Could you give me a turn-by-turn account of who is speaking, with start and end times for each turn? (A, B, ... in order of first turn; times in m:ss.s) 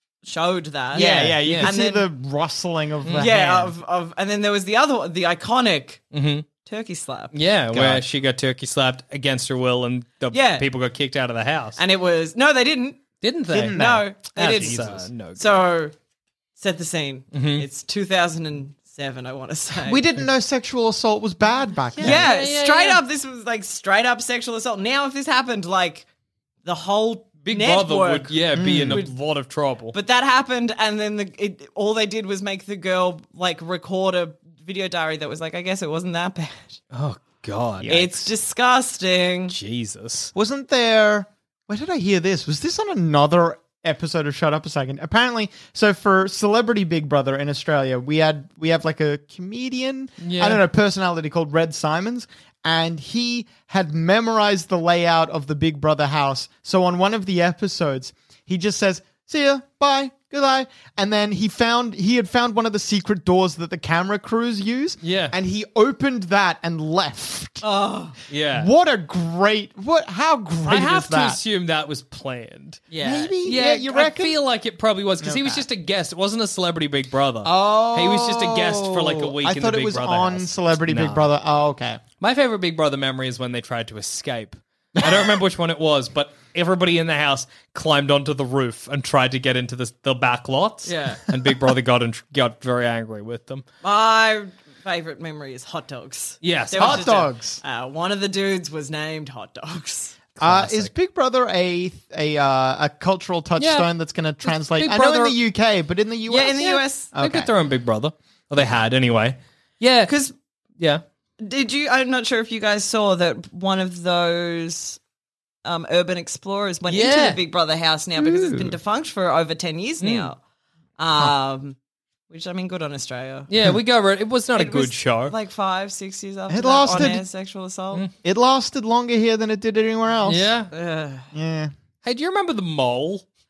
0:00.2-0:02.1 A
0:00.9-0:03.8 B
0:00.9-0:01.7 C
0:03.0-0:03.3 C
0:03.2-0:06.0 A
0:06.1-0:06.4 C
0:06.6-0:07.3 A
0:07.3-0:11.8 C
0:07.7-0:08.0 B
0:10.3-0:10.6 A
0:11.8-0:13.1 A
0:13.2-0:15.6 C
0:13.5-0:14.1 B
0:13.6-0:15.9 A
0:16.6-0:20.0 A
0:17.3-0:17.6 C
0:19.8-0:22.3 B
0:22.0-0:23.0 C
0:22.0-0:26.1 A
0:26.6-0:29.2 A
0:27.4-0:29.9 C
0:28.5-0:29.0 B
0:29.9-0:36.8 A
0:36.9-0:38.0 C
0:37.8-0:38.3 B
0:37.9-0:39.5 A
0:39.5-0:40.3 C
0:40.3-1:07.6 B
0:50.2-0:50.6 C
1:05.0-1:05.3 C
1:07.6-1:08.2 A
1:08.3-1:08.7 C
1:08.5-1:11.4 B
1:10.6-1:12.8 C
1:12.9-1:13.5 A
1:13.0-1:14.4 B
1:13.4-1:21.3 C
1:15.2-1:15.6 B
1:17.4-1:22.0 B
1:22.2-1:33.6 C
1:25.0-1:25.2 B
1:30.8-1:31.2 A
1:33.8-1:40.2 A
1:36.4-1:37.1 C
1:36.8-1:37.6 B
1:40.4-1:40.9 C
1:40.4-1:47.5 B
1:43.6-1:43.9 C
1:44.4-1:45.4 C
1:46.3-1:47.1 A
1:46.6-1:50.1 C
1:50.0-1:50.3 A
1:51.4-1:55.0 A
1:55.6-2:00.4 A
1:56.9-1:57.4 C
1:58.2-1:58.7 C
2:00.0-2:00.3 C
2:01.0-2:01.8 A
2:02.3-2:03.5 A
2:03.5-2:05.3 C
2:04.6-2:08.0 A
2:06.5-2:07.2 B
2:08.2-2:10.5 B
2:10.2-2:10.7 C
2:10.7-2:11.3 A
2:11.3-2:11.7 B
2:12.0-2:13.2 C